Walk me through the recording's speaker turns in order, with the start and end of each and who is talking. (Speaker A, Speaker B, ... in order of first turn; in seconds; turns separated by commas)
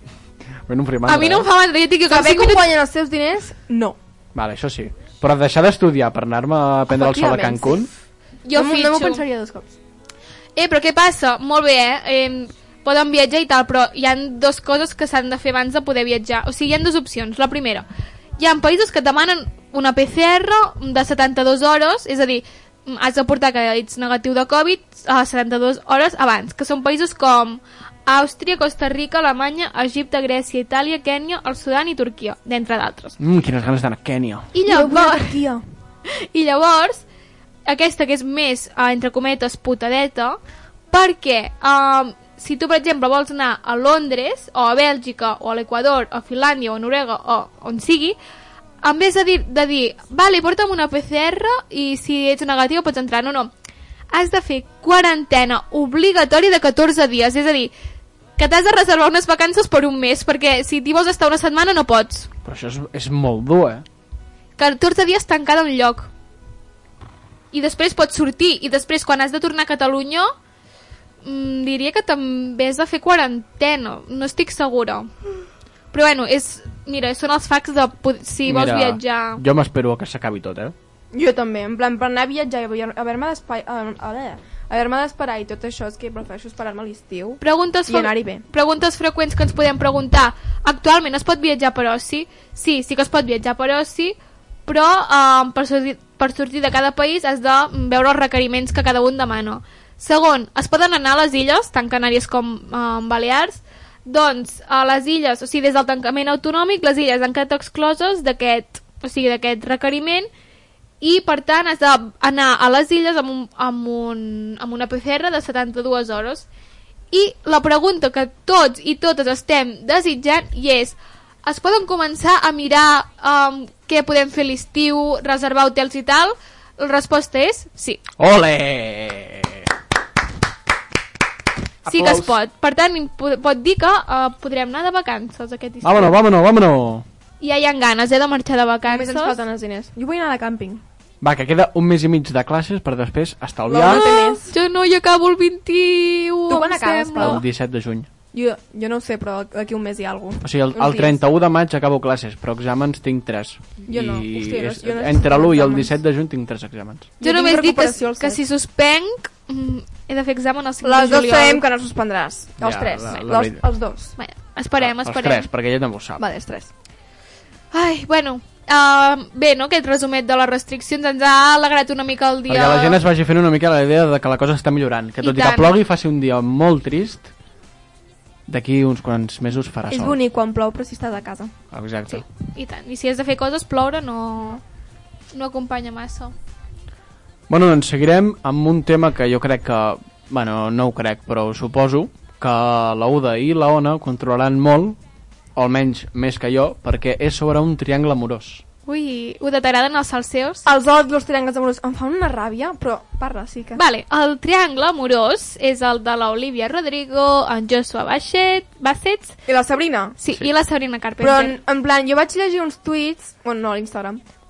Speaker A: 0.7-1.5, Speaker B: 1.1-2.7, Speaker C: 2.1-4.0, Speaker A: 4.3-7.9, Speaker C: 6.9-7.9, Speaker B: 8.4-9.2, Speaker C: 8.5-9.7, Speaker B: 10.6-17.8, Speaker B: 18.4-33.1, Speaker A: 33.2-34.5, Speaker B: 34.5-35.4, Speaker C: 34.6-35.6, Speaker B: 36.1-37.0, Speaker B: 37.6-40.4, Speaker B: 40.9-48.2, Speaker B: 48.8-53.5, Speaker B: 54.1-57.7, Speaker B: 58.4-62.3, Speaker A: 62.4-63.8, Speaker B: 64.6-66.1, Speaker B: 67.5-70.3, Speaker B: 71.2-75.1, Speaker B: 75.9-79.4, Speaker A: 78.4-80.7, Speaker C: 81.1-88.4, Speaker B: 87.4-94.2, Speaker B: 94.7-110.3, Speaker B: 111.0-116.5, Speaker B: 117.1-128.0, Speaker A: 128.2-129.7, Speaker A: 131.8-132.3, Speaker B: 131.8-136.1, Speaker A: 135.8-137.0, Speaker B: 137.4-139.3, Speaker C: 138.9-140.8, Speaker A: 141.2-144.1, Speaker C: 143.7-144.5, Speaker B: 143.9-147.4, Speaker C: 146.5-147.4, Speaker A: 147.2-148.1, Speaker C: 148.3-151.2, Speaker A: 150.4-157.1, Speaker C: 153.9-155.9, Speaker C: 157.2-158.4, Speaker B: 157.2-161.6, Speaker C: 160.8-164.1, Speaker A: 162.6-163.6, Speaker B: 164.2-165.5, Speaker A: 164.8-166.2, Speaker C: 166.2-166.7, Speaker B: 167.7-173.0, Speaker A: 172.5-177.3, Speaker B: 175.2-175.7, Speaker A: 178.5-180.2, Speaker C: 179.9-181.5, Speaker A: 181.7-182.2, Speaker B: 182.1-184.6, Speaker B: 185.3-186.3, Speaker A: 187.5-195.0, Speaker A: 195.6-198.6, Speaker B: 198.8-200.7, Speaker C: 200.6-203.8, Speaker B: 203.8-209.4, Speaker C: 209.5-210.2, Speaker B: 210.2-211.6, Speaker C: 211.2-214.2